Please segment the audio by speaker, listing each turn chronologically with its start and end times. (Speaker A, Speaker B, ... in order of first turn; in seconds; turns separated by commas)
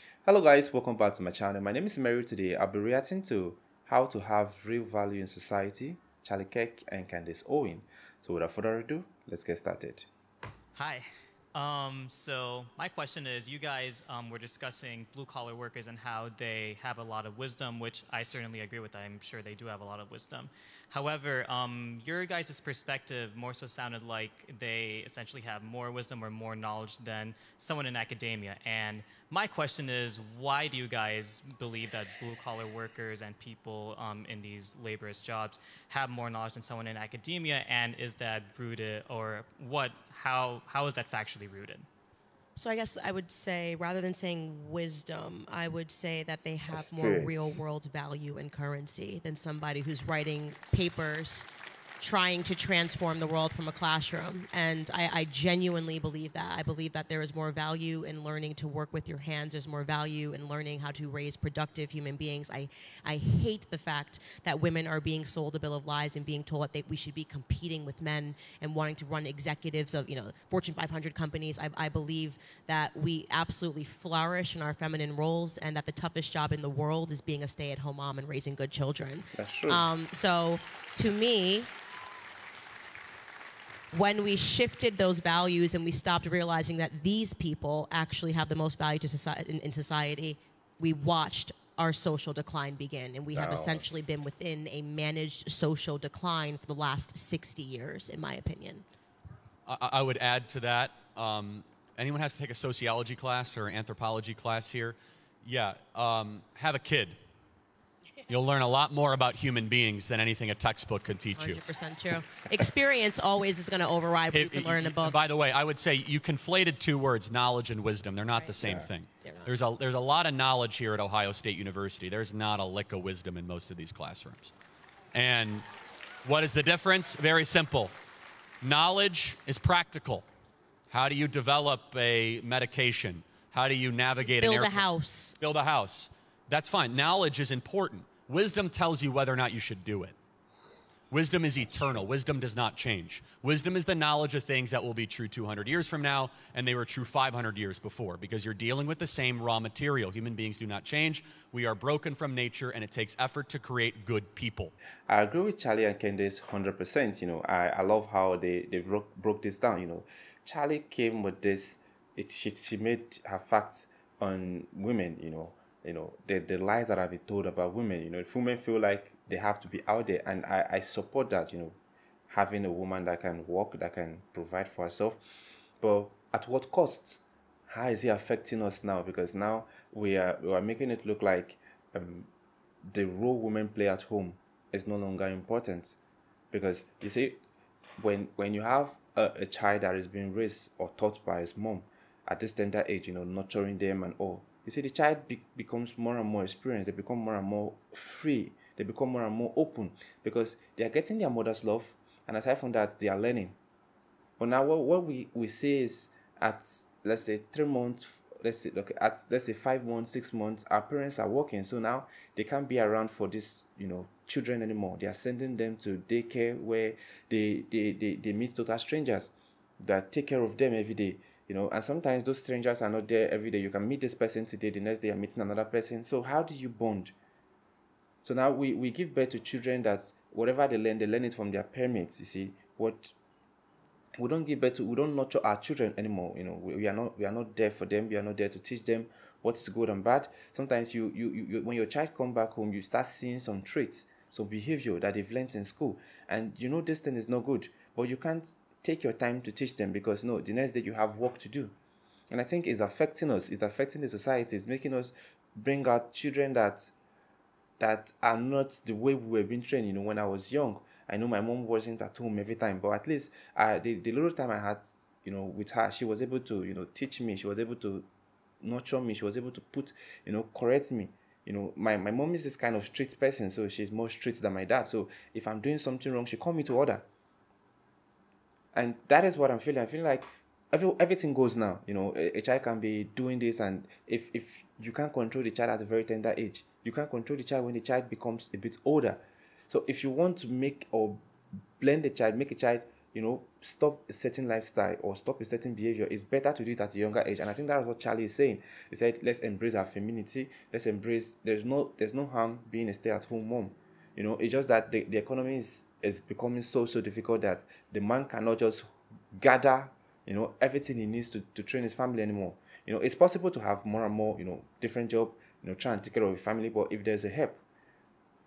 Speaker A: 0.2-10.1, Speaker B: 10.8-41.9, Speaker C: 42.6-51.5, Speaker A: 46.7-47.7, Speaker C: 52.0-81.7, Speaker A: 79.4-79.9, Speaker C: 83.9-98.8, Speaker A: 93.3-93.9, Speaker D: 99.7-107.2, Speaker D: 108.3-111.6, Speaker C: 111.3-115.2, Speaker D: 114.3-124.5, Speaker C: 118.3-118.6, Speaker A: 118.6-118.9, Speaker C: 119.2-119.6, Speaker D: 125.1-125.7, Speaker D: 126.2-127.9, Speaker D: 128.6-130.3, Speaker D: 130.9-140.2, Speaker C: 134.3-135.4, Speaker D: 141.1-154.7, Speaker A: 155.1-171.8, Speaker A: 172.3-175.2, Speaker A: 175.8-182.3, Speaker A: 182.9-186.0, Speaker A: 186.5-187.4, Speaker A: 188.0-203.6, Speaker A: 204.4-227.1, Speaker A: 228.2-233.1, Speaker A: 234.2-251.8, Speaker A: 252.3-256.9, Speaker A: 257.8-268.1, Speaker A: 268.6-277.0, Speaker A: 278.7-291.2, Speaker A: 291.8-317.6